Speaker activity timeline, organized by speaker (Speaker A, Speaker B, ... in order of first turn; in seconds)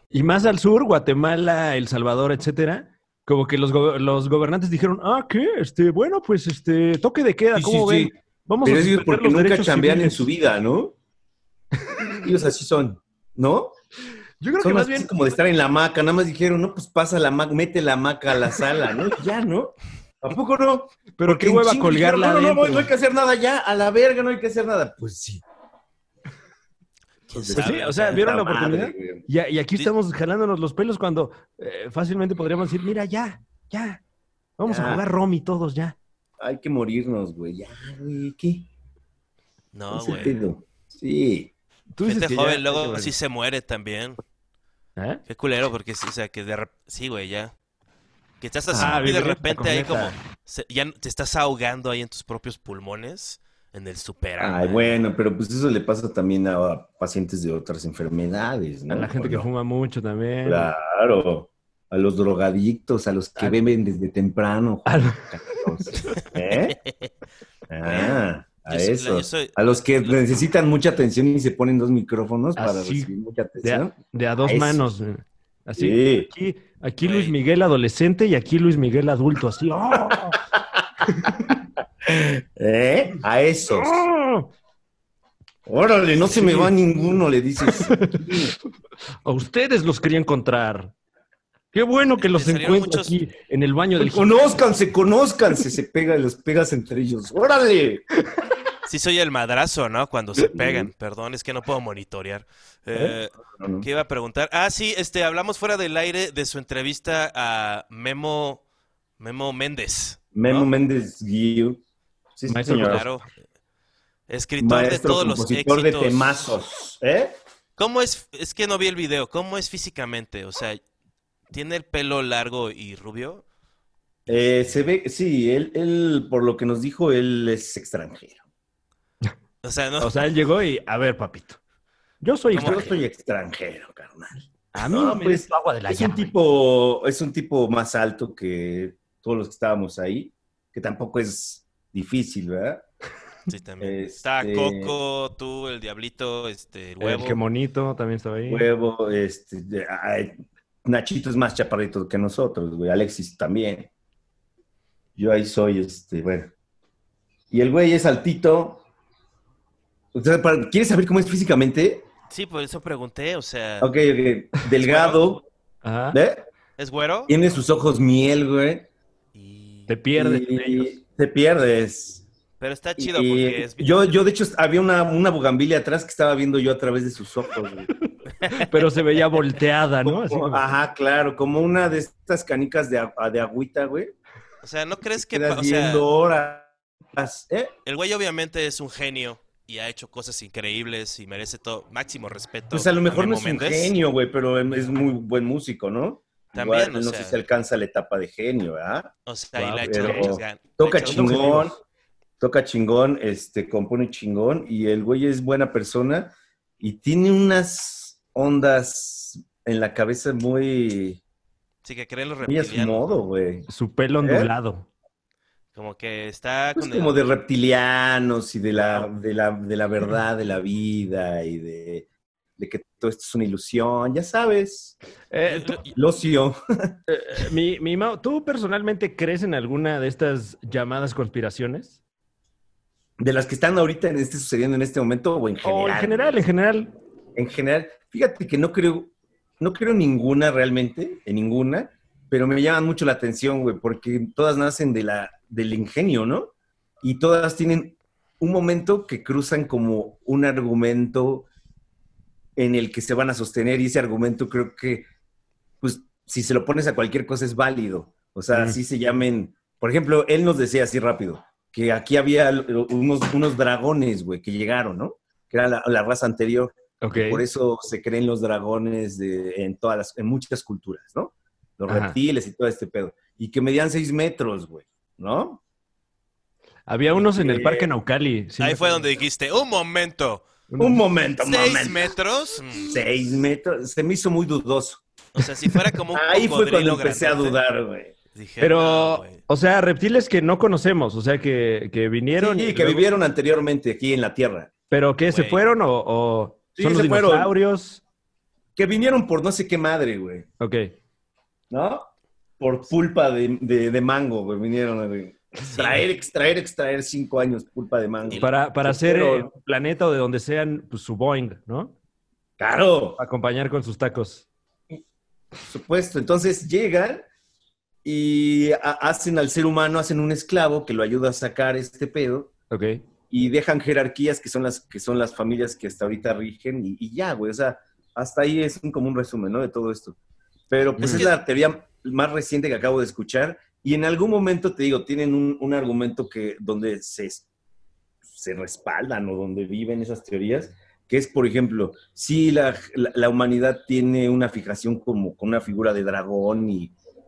Speaker A: 0.1-10.2, 11.8-12.2, 14.4-15.1, 21.2-22.9, 27.6-34.0, 34.6-36.0, 41.9-43.1, 48.8-50.2, 58.9-60.7, 64.9-66.2, 72.6-73.1, 73.6-80.4, 81.1-81.5, 83.7-84.5, 86.2-86.8, 87.7-88.4, 89.2-90.9, 91.7-94.5, 112.5-113.1, 130.0-131.6, 132.2-132.9, 134.7-136.3, 147.0-148.7, 165.8-166.2, 169.9-171.0, 177.9-180.7, 199.6-200.4, 201.1-201.8, 213.7-214.9, 225.3-225.8, 227.1-232.0, 235.6-236.9, 258.5-258.8, 267.0-267.4, 271.9-272.2, 276.9-279.1, 280.7-281.0, 288.6-293.1, 294.9-298.0, 300.6-300.9, 308.4-311.9, 313.2-314.5, 322.7-323.0, 331.0-331.3
Speaker B: 7.5-10.9, 12.2-13.7, 14.6-25.4, 27.3-29.3, 34.7-35.0, 36.4-38.7, 39.9-41.5, 48.7-49.1, 54.4-59.5, 60.5-66.8, 67.7-74.8, 75.8-76.3, 80.1-81.5, 82.0-84.0, 85.7-88.5, 94.0-98.0, 100.4-100.9, 103.5-103.9, 110.3-111.8, 112.4-113.0, 114.6-117.3, 124.3-128.4, 132.6-142.8, 143.8-144.9, 148.5-153.9, 155.2-156.5, 157.5-158.8, 160.1-162.1, 163.8-165.4, 166.1-166.5, 167.3-168.9, 170.2-172.2, 173.0-177.9, 180.0-184.1, 185.2-187.7, 192.7-199.1, 199.7-201.8, 202.4-211.2, 212.4-213.7, 214.2-214.5, 216.8-225.0, 225.9-227.0, 233.2-236.4, 237.3-251.5, 252.6-255.1, 255.8-275.6, 277.1-277.9, 280.8-282.1, 282.8-285.0, 286.1-288.1, 292.4-294.7, 296.8-297.5, 298.8-300.5, 301.7-302.1, 302.6-309.5, 312.6-313.2, 315.7-317.2, 318.1-322.5, 323.3-330.2, 330.7-337.5, 338.3-346.9
Speaker C: 27.3-28.2, 39.7-40.5, 42.0-44.2, 45.3-47.5, 48.4-55.0, 67.8-70.3, 77.0-77.4, 92.2-93.2, 98.8-108.6, 109.2-110.7, 112.7-113.3, 114.3-116.6, 117.8-120.8, 121.5-123.5, 129.6-130.3, 132.5-132.9, 143.5-147.4, 162.3-163.9, 164.8-165.4, 166.8-167.3, 169.3-169.9, 172.6-174.1, 178.4-178.8, 184.6-186.1, 187.8-194.0, 196.5-197.4, 199.3-201.6, 211.8-213.2, 215.8-217.2, 225.4-225.9, 278.6-280.4, 281.4-283.1, 285.3-287.6, 288.4-289.4, 295.3-295.7, 305.6-306.1, 331.0-331.3